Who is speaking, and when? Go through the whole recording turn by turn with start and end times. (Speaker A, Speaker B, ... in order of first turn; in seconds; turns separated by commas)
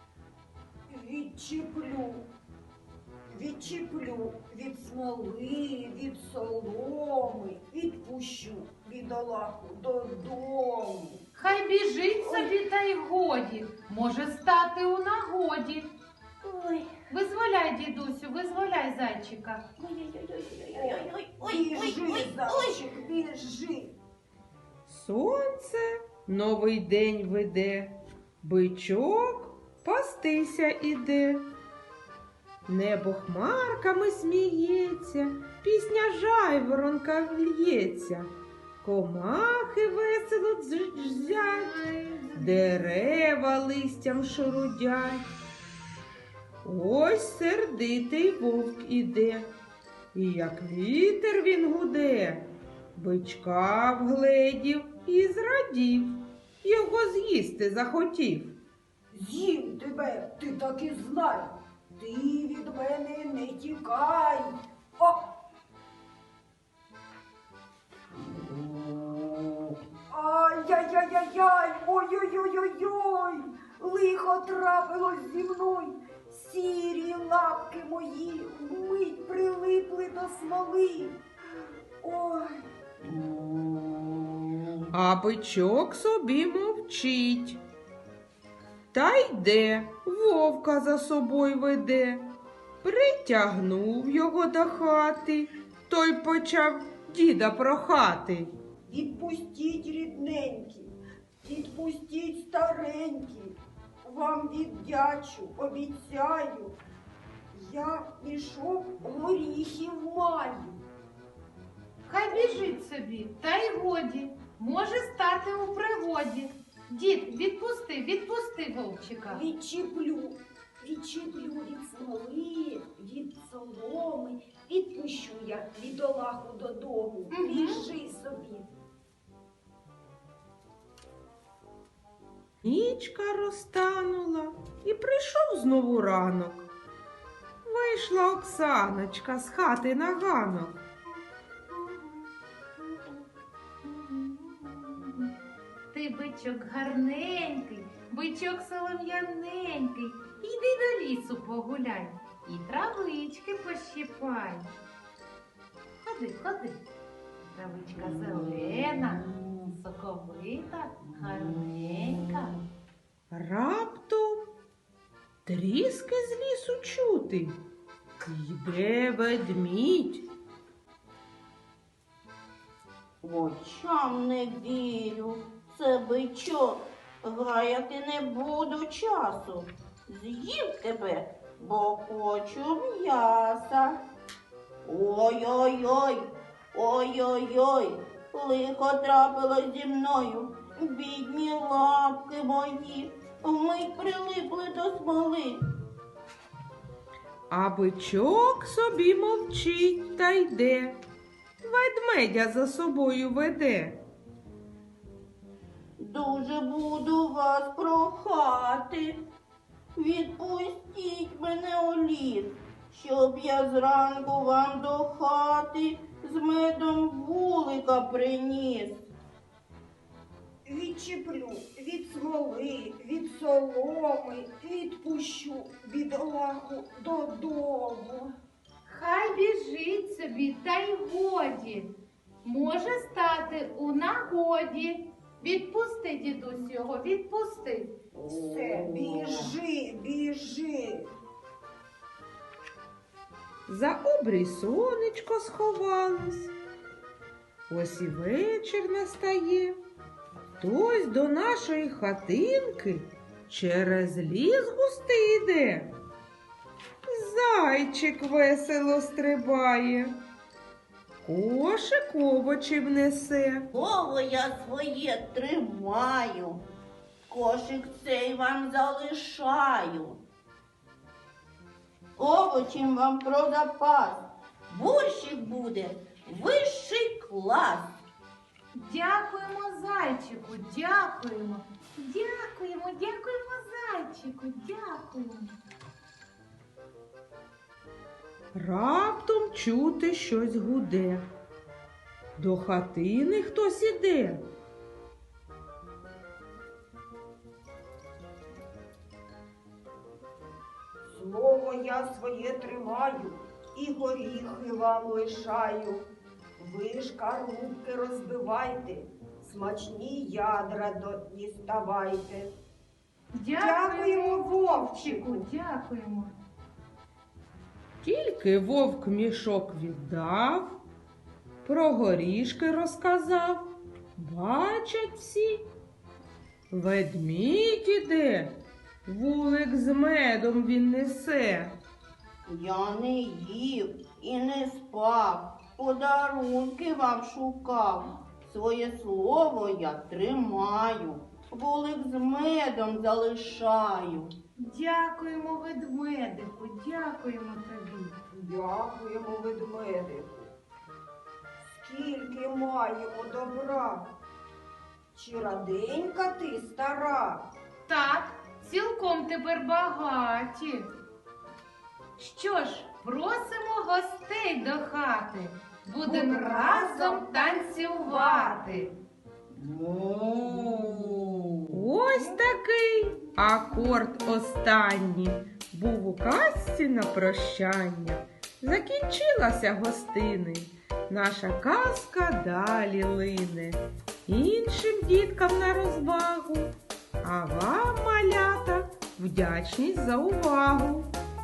Speaker A: 0.9-2.3, Speaker A: 3.3-11.2, Speaker B: 11.3-15.9, Speaker C: 16.4-16.9, Speaker B: 17.1-19.6, Speaker C: 19.8-22.8, Speaker A: 20.7-23.9, Speaker D: 24.9-31.5, Speaker D: 32.7-38.3, Speaker D: 38.8-41.7, Speaker B: 41.3-42.8, Speaker D: 42.3-45.2, Speaker D: 46.6-49.5, Speaker D: 50.1-58.5, Speaker A: 59.1-65.3, Speaker C: 68.2-69.7, Speaker A: 70.1-81.2, Speaker A: 82.0-82.7, Speaker C: 83.0-84.9, Speaker D: 84.9-87.6, Speaker D: 88.9-92.3, Speaker D: 92.8-98.5, Speaker A: 98.9-106.8, Speaker A: 107.5-110.8, Speaker B: 112.1-119.4, Speaker A: 112.3-112.7, Speaker A: 119.3-128.7, Speaker B: 127.3-127.9, Speaker D: 132.6-136.7, Speaker D: 137.7-140.8, Speaker B: 141.7-142.2, Speaker B: 142.8-143.2, Speaker B: 143.8-145.3, Speaker B: 145.9-154.7, Speaker B: 156.0-156.8, Speaker B: 157.5-162.6, Speaker C: 158.0-159.7, Speaker C: 161.1-162.4, Speaker D: 163.3-164.5, Speaker D: 165.5-167.6, Speaker D: 168.2-170.3, Speaker C: 173.2-184.0, Speaker C: 184.8-195.6, Speaker D: 197.5-201.0, Speaker D: 201.6-204.0, Speaker C: 206.0-209.2, Speaker C: 210.0-219.1, Speaker A: 220.7-228.3, Speaker B: 228.9-231.9, Speaker B: 232.4-237.9, Speaker A: 238.1-241.1, Speaker C: 238.3-239.5, Speaker D: 243.7-246.5, Speaker D: 247.7-249.8, Speaker D: 250.6-255.9, Speaker D: 257.1-260.2, Speaker D: 261.2-263.7, Speaker C: 263.7-266.6, Speaker C: 267.3-270.2, Speaker C: 272.2-277.9, Speaker B: 278.7-285.5, Speaker D: 288.5-291.3, Speaker D: 292.4-294.5, Speaker A: 301.1-306.1, Speaker A: 306.6-312.5, Speaker B: 313.3-316.3, Speaker A: 313.6-315.5, Speaker D: 318.0-320.8, Speaker D: 321.6-325.6, Speaker D: 326.7-331.8, Speaker C: 332.5-344.3, Speaker B: 344.6-348.2, Speaker A: 348.3-350.5, Speaker A: 351.6-354.1, Speaker A: 355.1-357.5, Speaker B: 357.9-360.9, Speaker B: 362.2-368.9, Speaker A: 366.0-368.9, Speaker C: 369.5-371.9, Speaker D: 371.7-391.1